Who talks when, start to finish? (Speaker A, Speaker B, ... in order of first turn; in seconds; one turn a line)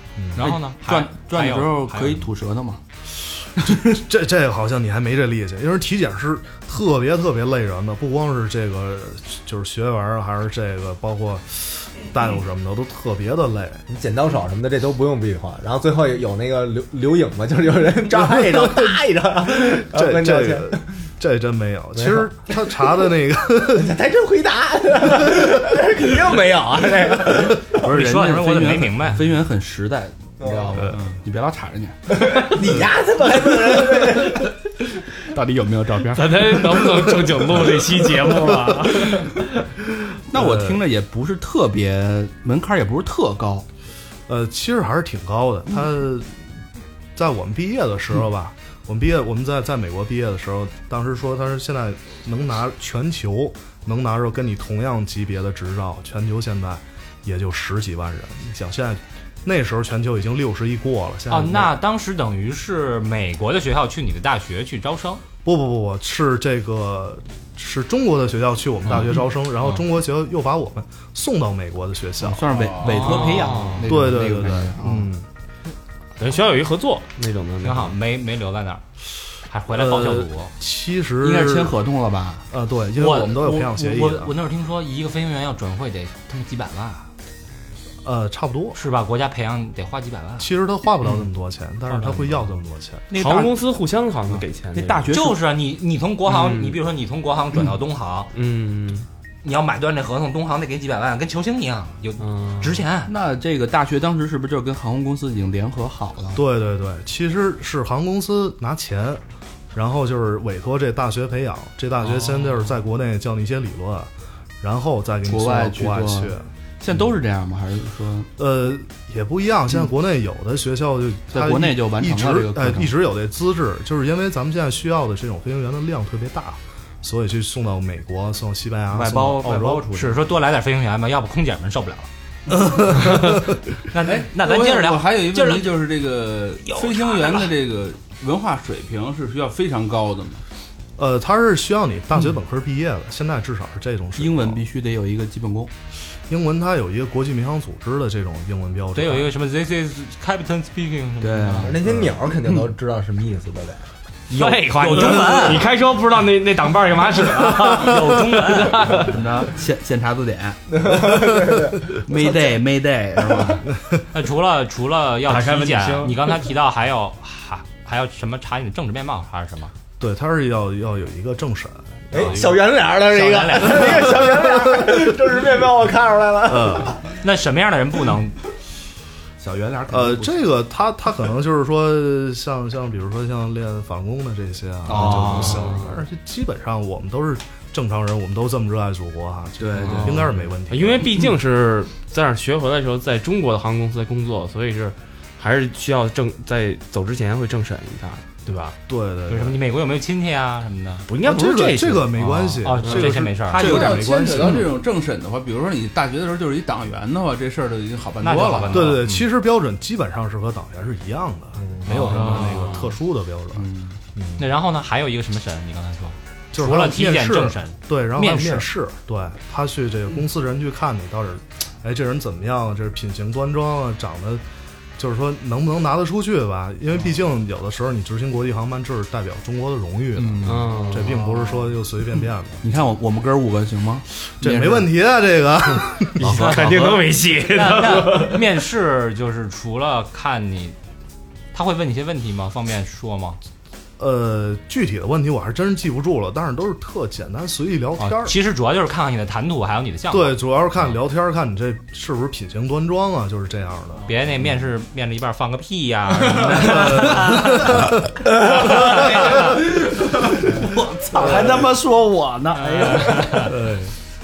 Speaker A: 0.2-0.5
Speaker B: 0.3-2.8
Speaker C: 0.4-2.3
Speaker B: 3.6-4.0
Speaker A: 3.6-13.9
Speaker D: 13.9-20.8
Speaker A: 18.1-23.9
Speaker D: 22.0-22.3
Speaker D: 23.7-27.8
Speaker B: 27.8-31.9
Speaker C: 27.8-29.2
Speaker D: 30.4-30.9
Speaker D: 32.1-34.5
Speaker B: 35.3-37.0
Speaker E: 36.1-39.6
Speaker B: 40.3-43.6
Speaker A: 40.3-40.8
Speaker A: 44.3-46.4
Speaker A: 47.1-61.7
Speaker C: 61.3-65.2
Speaker A: 65.4-72.5
Speaker B: 72.2-75.1
Speaker F: 72.5-73.4
Speaker C: 72.8-73.8
Speaker A: 73.8-75.2
Speaker E: 76.2-78.0
Speaker C: 77.6-78.8
Speaker C: 79.5-80.5
Speaker A: 79.7-81.8
Speaker B: 81.2-82.4
Speaker A: 82.5-84.3
Speaker C: 83.0-87.1
Speaker A: 88.0-88.8
Speaker C: 88.7-90.5
Speaker A: 90.4-93.0
Speaker C: 91.9-92.6
Speaker C: 93.1-93.5
Speaker E: 93.1-95.2
Speaker B: 94.7-95.4
Speaker C: 95.1-98.3
Speaker E: 96.2-96.8
Speaker E: 98.3-99.1
Speaker C: 99.4-103.1
Speaker E: 102.2-102.8
Speaker B: 103.0-106.4
Speaker A: 106.3-109.2
Speaker A: 109.7-116.5
Speaker B: 115.2-118.3
Speaker A: 118.4-129.9
Speaker B: 121.3-122.9
Speaker B: 128.9-130.2
Speaker C: 129.9-132.1
Speaker A: 132.7-133.2
Speaker C: 133.9-135.7
Speaker F: 134.1-140.4
Speaker C: 136.6-137.5
Speaker A: 141.0-144.6
Speaker B: 144.2-145.7
Speaker A: 146.3-149.3
Speaker C: 148.9-151.7
Speaker B: 151.2-151.8
Speaker D: 151.6-153.8
Speaker A: 151.9-152.1
Speaker C: 154.3-155.7
Speaker E: 154.3-159.1
Speaker C: 157.6-159.0
Speaker B: 158.9-160.6
Speaker D: 160.7-162.3
Speaker B: 162.0-163.7
Speaker C: 164.1-169.7
Speaker E: 165.3-166.2
Speaker A: 170.0-172.6
Speaker D: 172.1-177.0
Speaker C: 172.2-174.3
Speaker A: 174.0-174.9
Speaker A: 176.4-176.9
Speaker C: 177.2-178.4
Speaker B: 179.4-180.4
Speaker A: 179.9-191.1
Speaker B: 184.9-185.7
Speaker B: 189.6-190.2
Speaker E: 190.7-198.7
Speaker A: 198.9-199.6
Speaker C: 199.3-201.0
Speaker E: 201.1-202.9
Speaker A: 201.2-204.7
Speaker C: 202.6-203.8
Speaker F: 203.5-208.9
Speaker B: 203.6-204.3
Speaker C: 208.2-209.0
Speaker A: 208.7-214.4
Speaker C: 211.9-212.7
Speaker E: 212.0-212.7
Speaker B: 213.6-214.0
Speaker C: 214.4-218.7
Speaker A: 216.5-224.4
Speaker A: 225.0-232.6
Speaker B: 230.2-230.5
Speaker E: 230.4-231.1
Speaker B: 232.6-234.9
Speaker A: 234.4-236.4
Speaker B: 236.2-237.0
Speaker C: 236.2-240.8
Speaker E: 236.4-238.5
Speaker C: 241.5-243.4
Speaker A: 244.0-248.4
Speaker C: 248.0-250.9
Speaker A: 250.1-254.1
Speaker C: 254.1-257.8
Speaker A: 256.7-257.2
Speaker C: 258.4-259.5
Speaker B: 258.7-259.6
Speaker B: 260.3-263.8
Speaker A: 261.2-261.5
Speaker C: 262.6-263.5
Speaker A: 263.5-263.9